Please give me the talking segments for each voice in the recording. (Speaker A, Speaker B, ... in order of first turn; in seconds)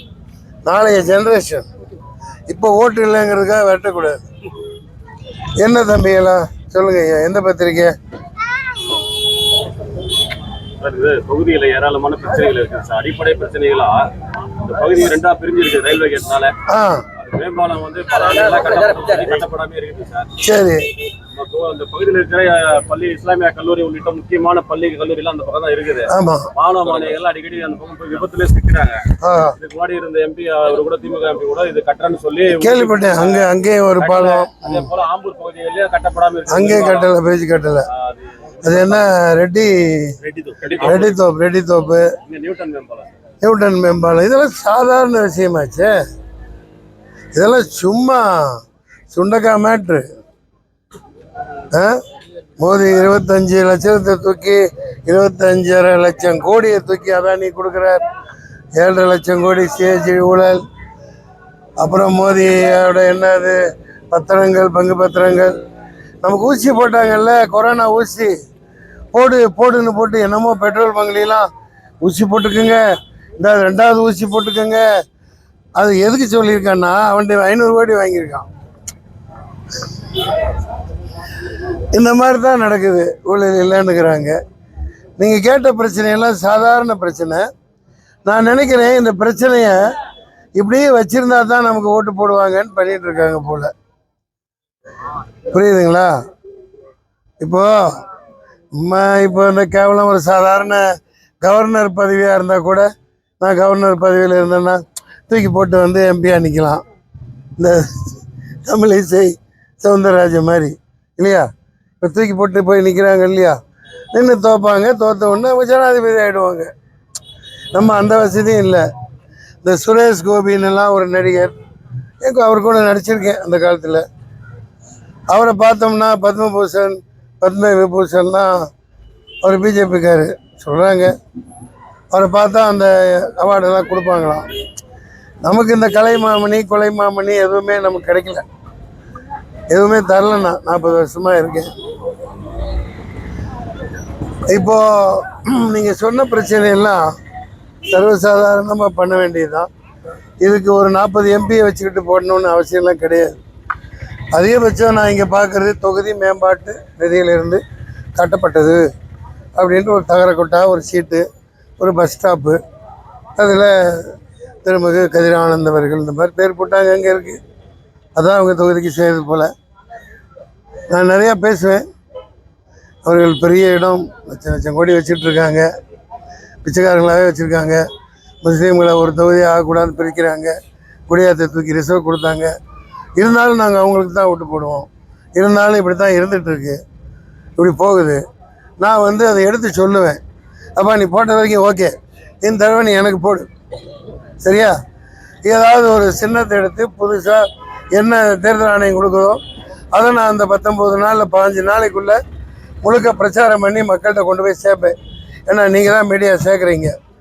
Speaker A: 0.6-1.7, 2.5-4.2, 5.6-7.9, 16.7-17.0, 20.4-20.8, 26.1-26.5, 29.2-29.6, 32.5-34.8, 36.5-37.9, 38.6-40.1, 40.8-42.1, 43.4-45.9, 47.3-48.6, 49.1-50.0, 51.7-52.0, 52.6-58.0, 58.7-60.6, 61.8-63.6, 64.1-65.5, 66.2-68.3, 69.1-71.5, 72.0-72.8, 73.4-74.8, 75.8-78.5, 81.9-84.3, 85.2-87.5, 88.2-89.8, 90.5-93.7, 95.5-96.1, 97.4-98.0, 98.7-100.8, 101.4-102.8, 103.4-106.8, 107.6-111.5, 112.0-113.6, 114.1-116.7, 117.7-118.8, 119.6-121.5, 122.2-124.0, 125.3-128.5, 129.4-131.1, 132.1-134.5, 135.4-138.4, 139.7-141.7, 144.5-147.0, 147.9-149.7, 150.4-153.4, 154.3-157.6, 158.2-158.8, 159.6-161.2, 161.8-162.6, 163.4-167.4, 168.2-169.5, 170.9-171.8, 173.0-175.7, 176.6-177.8, 178.4-180.5, 181.1-182.5, 183.2-186.8, 187.6-188.2, 188.8-190.2, 190.8-193.5, 194.4-194.8, 195.4-199.4, 199.9-202.2, 202.8-204.9, 205.5-206.9
Speaker B: 10.8-16.6, 17.2-20.3, 21.3-29.1, 29.6-37.1, 37.9-39.0, 40.2-41.2, 42.2-43.1